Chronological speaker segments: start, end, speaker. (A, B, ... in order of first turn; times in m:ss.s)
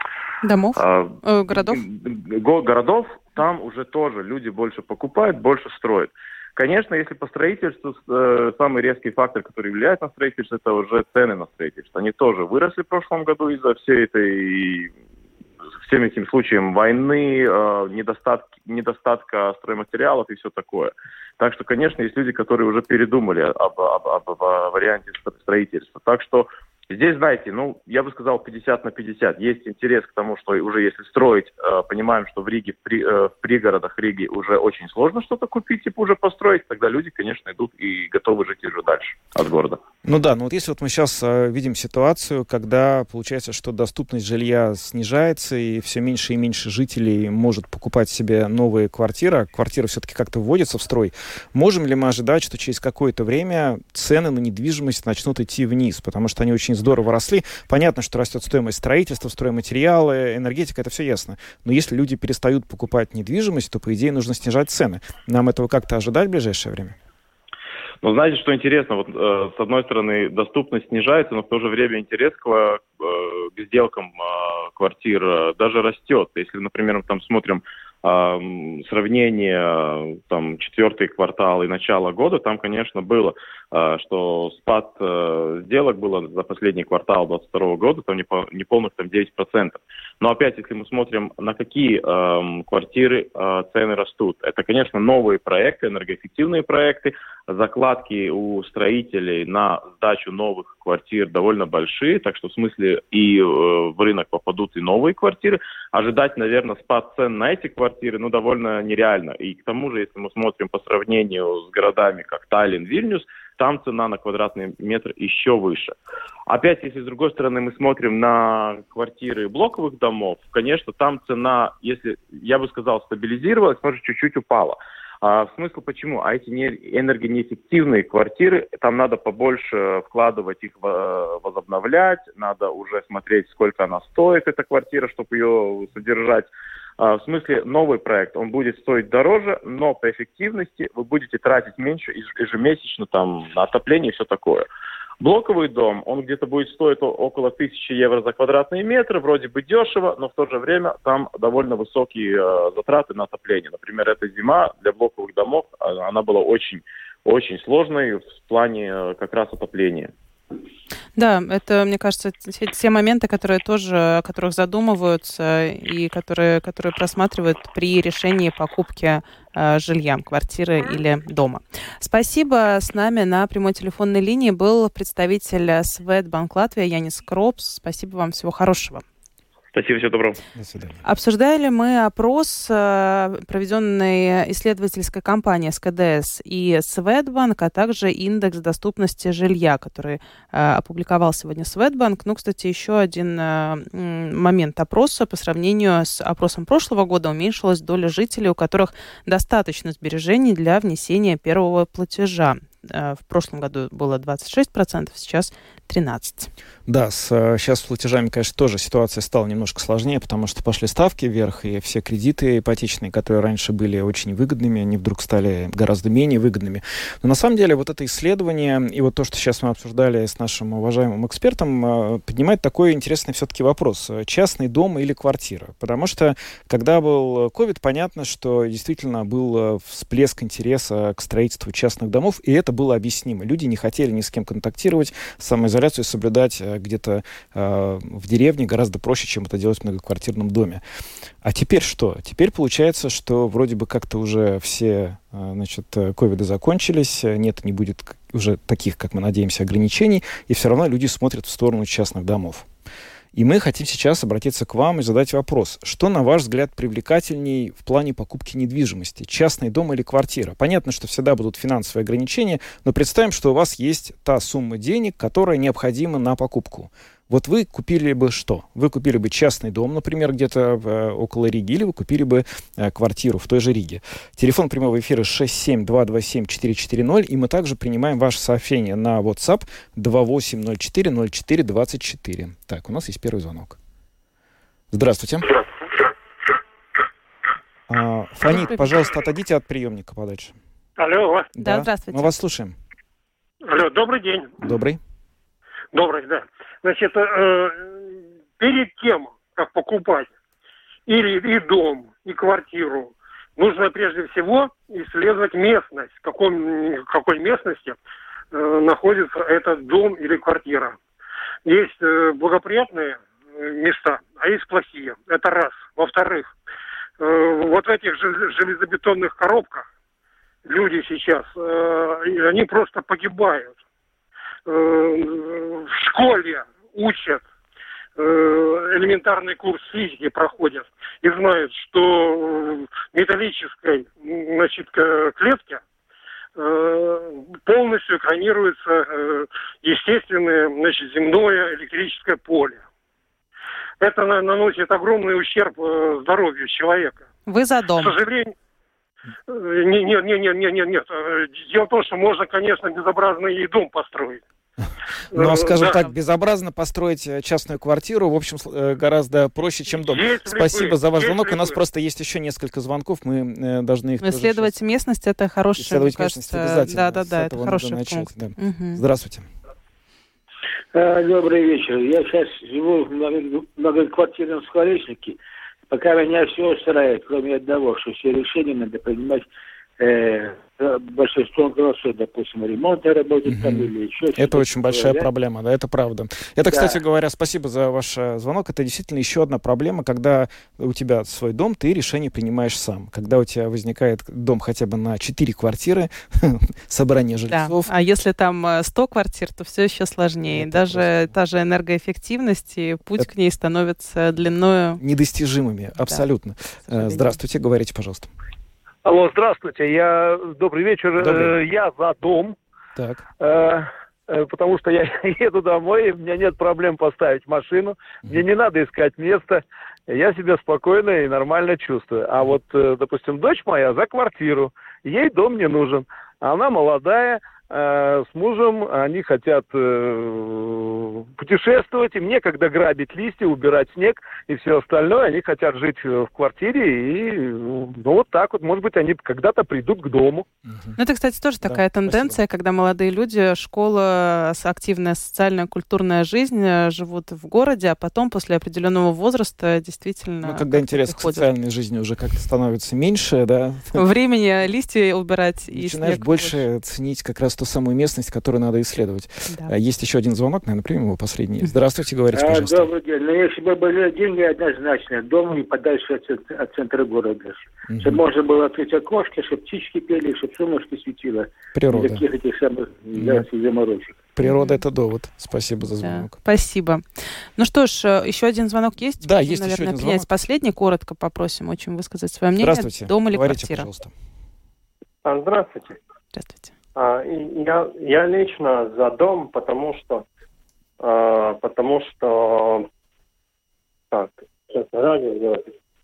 0:00.4-0:01.8 A
0:00.8-0:14.9 B
0:15.8-0:39.8 B
0:40.0-1:07.0 C
1:08.0-2:24.7 B
2:25.2-2:40.1 B
2:41.2-2:59.0 A
2:59.7-3:00.4 B
3:00.5-3:01.0 C
3:01.0-3:26.5 A
3:26.9-4:00.8 C
4:01.4-4:12.7 C
4:13.3-4:43.8 C
4:44.9-4:45.5 C
4:47.9-4:50.5 C
4:48.5-4:48.9 A
4:51.0-4:51.5 D
4:51.5-4:52.8 C
4:51.6-4:52.3 A
4:53.6-4:54.5 D
4:54.6-4:55.0 C
4:55.9-5:00.3 D
5:01.1-5:08.0 D
5:08.5-5:11.0 D
5:11.6-5:16.5 D
5:17.2-5:19.8 D
5:20.6-5:23.8 D
5:24.6-5:27.4 D
5:28.2-5:35.8 D
5:36.6-5:42.8 D
5:44.0-5:47.2 D
5:47.5-5:48.2 A
5:48.0-5:48.5 D
5:49.5-5:54.4 D
5:55.3-6:04.7 C
5:55.3-5:56.0 D
5:59.9-6:01.8 D
6:04.2-6:09.0 A
6:05.8-6:09.5 C
6:10.9-6:15.4 E
6:15.9-6:19.5 E
6:20.0-6:25.3 E
6:23.4-6:37.9 C
6:26.7-6:27.0 E
6:37.5-6:45.0 A
6:40.5-6:41.3 C
6:45.0-6:48.3 C
6:46.9-6:47.4 A
6:49.0-6:52.6 F
6:51.2-6:51.5 C
6:52.9-6:53.2 C
6:53.4-7:20.4 F
7:20.7-7:21.0 C
7:21.0-7:31.5 A
7:21.6-7:22.3 C
7:30.4-7:34.0 C
7:33.9-7:36.6 A
7:35.7-7:42.9 C
7:42.3-7:54.2 E
7:47.9-7:48.2 C
7:51.7-7:52.2 C
7:53.1-7:53.4 C
7:54.4-7:56.3 C
7:54.4-7:54.8 A
7:56.0-7:57.0 A
7:57.6-8:03.9 A
7:59.2-8:00.3 C
8:02.6-8:04.1 C
8:05.2-8:06.0 G
8:06.3-8:06.7 A
8:07.0-8:10.2 G
8:11.0-8:12.8 G
8:14.1-8:15.7 G